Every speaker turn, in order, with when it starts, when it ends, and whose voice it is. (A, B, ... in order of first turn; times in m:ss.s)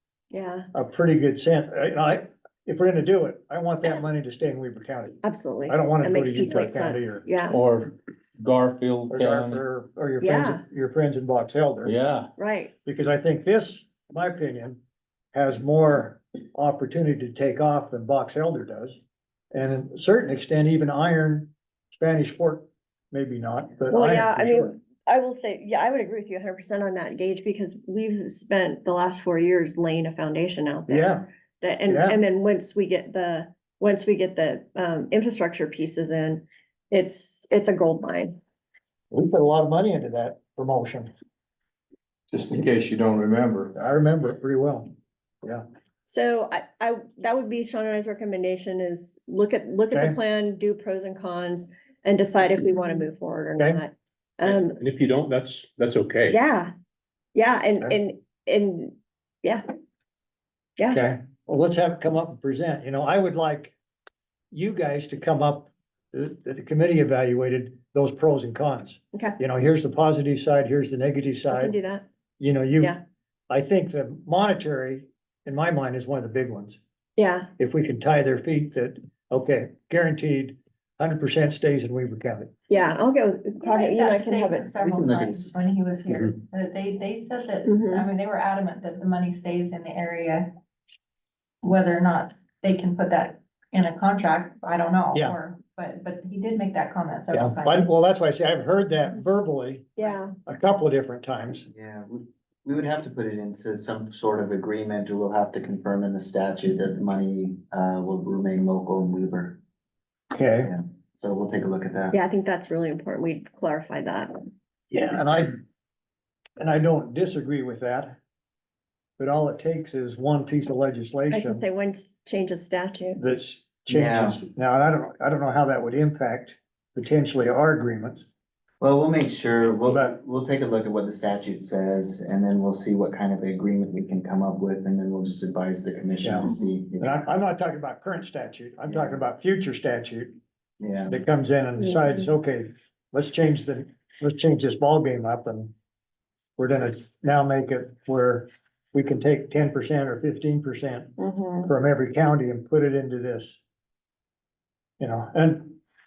0:00.3-0:00.7 A
0:00.7-0:07.3 B
0:05.2-0:07.6 A
0:07.5-0:09.6 C
0:09.1-0:11.9 B
0:10.2-0:10.6 A
0:11.8-0:12.3 C
0:12.4-0:12.7 A
0:12.8-0:14.8 B
0:15.3-0:19.0 B
0:19.5-0:24.7 B
0:23.9-0:38.4 A
0:30.9-0:31.2 B
0:31.9-0:32.2 B
0:39.1-0:41.1 B
0:42.3-0:43.7 C
0:43.7-0:44.9 B
0:46.1-0:54.8 A
0:49.9-0:50.2 B
0:53.6-0:53.8 B
0:54.4-0:56.4 D
0:56.3-0:56.7 A
0:57.3-0:59.6 A
1:00.9-1:03.8 B
1:04.5-1:11.8 B
1:11.5-1:12.0 A
1:12.4-1:13.0 B
1:13.5-1:16.8 B
1:17.2-1:17.5 A
1:17.6-1:22.5 B
1:22.7-1:24.7 A
1:23.6-1:30.5 E
1:24.8-1:25.5 F
1:27.6-1:28.1 A
1:31.6-1:37.8 E
1:35.1-1:35.4 B
1:37.3-1:40.0 B
1:40.0-1:40.3 A
1:40.5-1:41.7 B
1:41.7-1:49.6 F
1:50.3-1:50.7 B
1:50.6-1:52.2 F
1:52.1-1:54.3 A
1:54.9-1:55.6 B
1:56.6-1:58.2 B
1:59.2-2:01.6 B
2:01.3-2:03.2 A
2:03.2-2:08.2 B
2:03.9-2:04.4 F
2:08.8-2:17.1 F
2:09.9-2:10.2 B
2:16.2-2:20.3 B
2:18.9-2:19.2 F
2:20.8-2:21.2 F
2:21.1-2:25.7 B
2:21.8-2:22.2 A
2:26.6-2:31.1 B
2:31.2-2:31.7 A
2:31.6-2:33.6 B
2:35.0-2:35.8 B